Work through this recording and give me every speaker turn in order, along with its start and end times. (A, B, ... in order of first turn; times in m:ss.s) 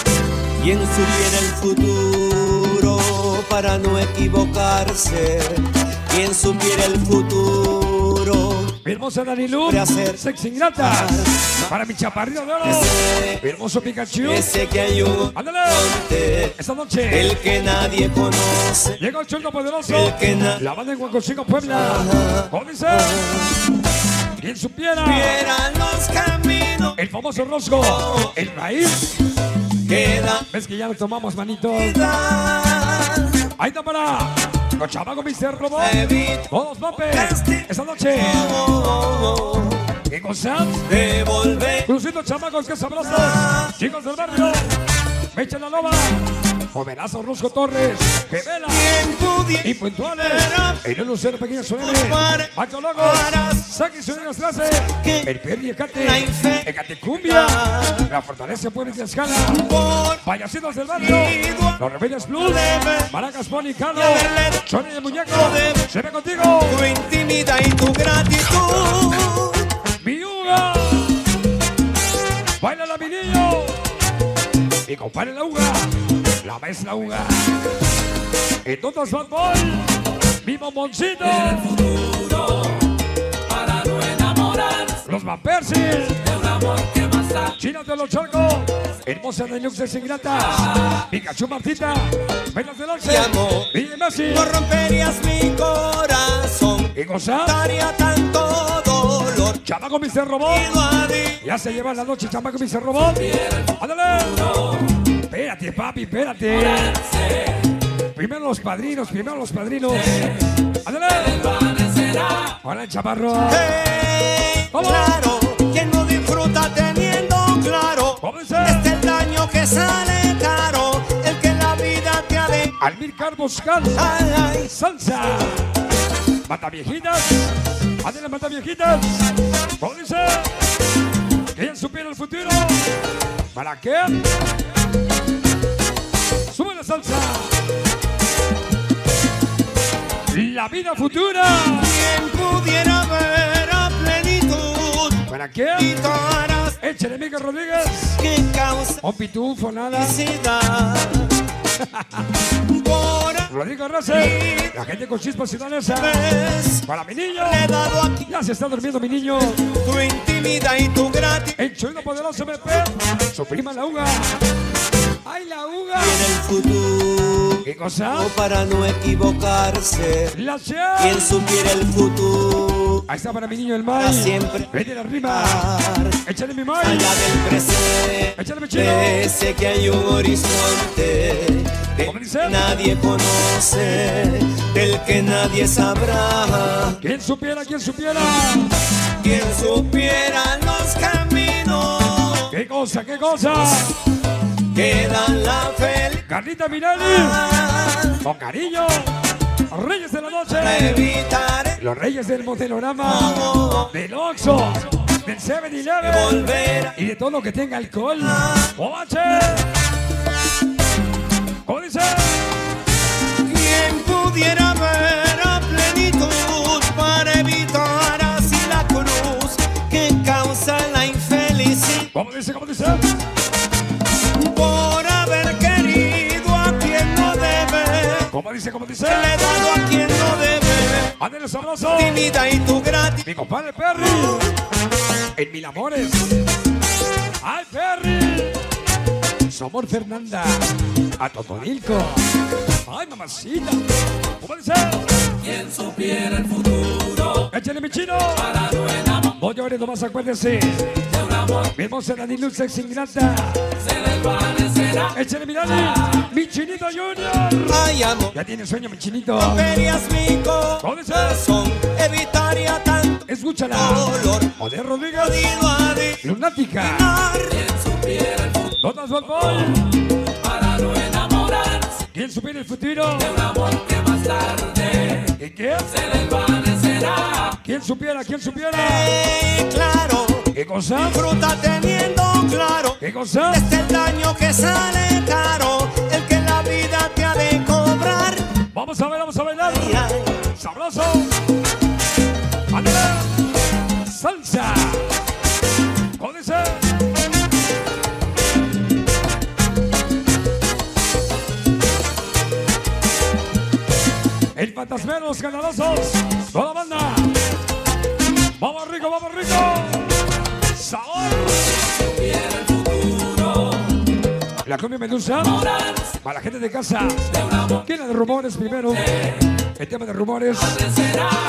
0:00.6-0:08.7 A
0:08.8-0:14.5 B
0:09.6-0:10.2 A
0:10.8-0:11.7 A
0:12.6-0:13.4 A
0:14.2-0:16.5 A
0:15.3-0:16.0 B
0:16.6-0:17.4 B
0:17.1-0:19.0 A
0:19.0-0:23.3 B
0:19.9-0:20.6 A
0:21.7-0:23.5 A
0:24.4-0:25.4 B
0:25.0-0:27.0 A
0:27.0-0:29.2 B
0:27.8-0:28.3 A
0:29.8-0:30.4 A
0:30.5-0:32.0 B
0:31.7-0:33.3 A
0:33.6-0:36.0 B
0:35.8-0:39.8 A
0:36.5-0:38.6 B
0:40.1-0:40.8 B
0:40.8-0:41.9 A
0:41.8-0:44.6 B
0:43.0-0:43.7 A
0:45.3-0:48.9 B
0:48.7-0:50.8 A
0:49.6-0:59.6 B
0:51.8-0:53.6 A
0:55.0-0:55.3 A
0:55.9-0:56.7 A
0:57.2-0:58.1 A
0:59.5-1:00.2 A
1:00.2-1:06.8 B
1:01.0-1:01.8 A
1:02.3-1:03.1 A
1:03.9-1:04.7 A
1:05.3-1:05.8 A
1:06.6-1:09.6 A
1:10.0-1:11.2 B
1:12.6-1:13.8 B
1:14.8-1:15.9 B
1:16.4-1:17.5 B
1:18.6-1:19.9 B
1:20.4-1:21.8 B
1:25.0-1:26.3 B
1:27.5-1:34.5 B
1:33.0-1:33.7 A
1:34.2-1:39.6 A
1:36.9-1:37.6 B
1:39.6-1:40.7 B
1:40.4-1:41.4 A
1:41.4-1:44.6 B
1:45.3-1:47.0 B
1:48.1-1:51.5 B
1:52.5-1:53.7 B
1:53.5-2:02.7 A
1:54.7-1:55.2 B
1:58.2-1:58.9 B
2:02.8-2:04.0 B
2:03.9-2:04.7 A
2:04.7-2:05.6 B
2:06.4-2:09.3 B
2:09.8-2:10.5 B
2:11.5-2:12.8 B
2:13.5-2:14.2 B
2:16.5-2:17.5 B
2:20.3-2:21.9 B
2:21.8-2:25.2 A
2:25.3-2:25.9 B
2:25.7-2:26.8 A
2:26.8-2:28.2 B
2:28.2-2:29.0 A
2:29.0-2:30.2 B
2:29.9-2:31.3 A
2:32.7-2:33.5 A
2:33.5-2:36.2 B
2:34.1-2:34.7 A
2:35.9-2:36.8 A
2:36.8-2:37.7 B
2:37.4-2:38.2 A
2:38.2-2:39.6 B
2:39.4-2:41.5 A
2:41.6-2:44.4 B
2:45.2-2:46.3 B
2:46.0-2:50.3 A
2:47.6-2:48.3 B
2:50.3-2:51.3 B
2:51.0-2:53.0 A
2:53.1-2:55.6 B
2:53.9-2:54.7 A
2:55.2-2:56.2 A
2:56.2-2:57.2 B
2:56.8-3:07.0 A
2:58.4-2:59.3 B
3:02.0-3:02.8 B
3:07.0-3:08.7 B
3:09.2-3:12.5 A
3:12.5-3:13.9 B
3:14.7-3:16.2 A
3:16.2-3:17.4 B
3:17.0-3:18.2 A
3:18.2-3:19.1 B
3:19.7-3:21.1 B
3:20.5-3:21.8 A
3:21.8-3:29.6 B
3:23.0-3:23.9 A
3:26.0-3:27.0 A
3:28.2-3:28.7 A
3:31.6-3:32.4 B
3:33.4-3:42.1 A
3:42.1-3:43.0 B
3:44.3-3:48.3 A
3:48.3-3:49.3 B
3:49.0-3:51.2 A
3:51.2-3:52.2 B
3:51.9-3:53.2 A
3:53.2-3:54.5 B
3:55.4-3:56.4 B
3:57.4-3:58.6 B
3:59.5-4:00.7 B
4:01.2-4:02.2 B
4:02.8-4:03.8 B
4:04.4-4:05.0 B
4:07.5-4:08.6 B
4:09.3-4:11.0 B
4:11.7-4:13.6 B
4:15.1-4:19.6 B
4:17.7-4:18.4 A
4:19.4-4:24.5 A
4:20.8-4:21.4 B
4:23.3-4:25.6 B
4:25.1-4:26.2 A
4:26.2-4:27.1 B
4:26.8-4:27.7 A
4:28.8-4:29.9 B
4:32.1-4:33.4 B
4:35.4-4:36.0 B
4:37.5-4:39.1 B
4:38.7-4:48.4 A
4:40.5-4:41.2 B
4:43.0-4:43.7 B
4:48.7-4:50.0 B
4:49.6-4:50.3 A
4:50.5-4:51.3 B
4:52.7-4:53.3 B
4:54.0-4:55.1 B
4:56.2-4:56.8 B
5:04.5-5:07.3 B
5:08.6-5:10.0 B
5:10.7-5:11.8 B
5:14.6-5:15.7 B
5:16.2-5:20.8 B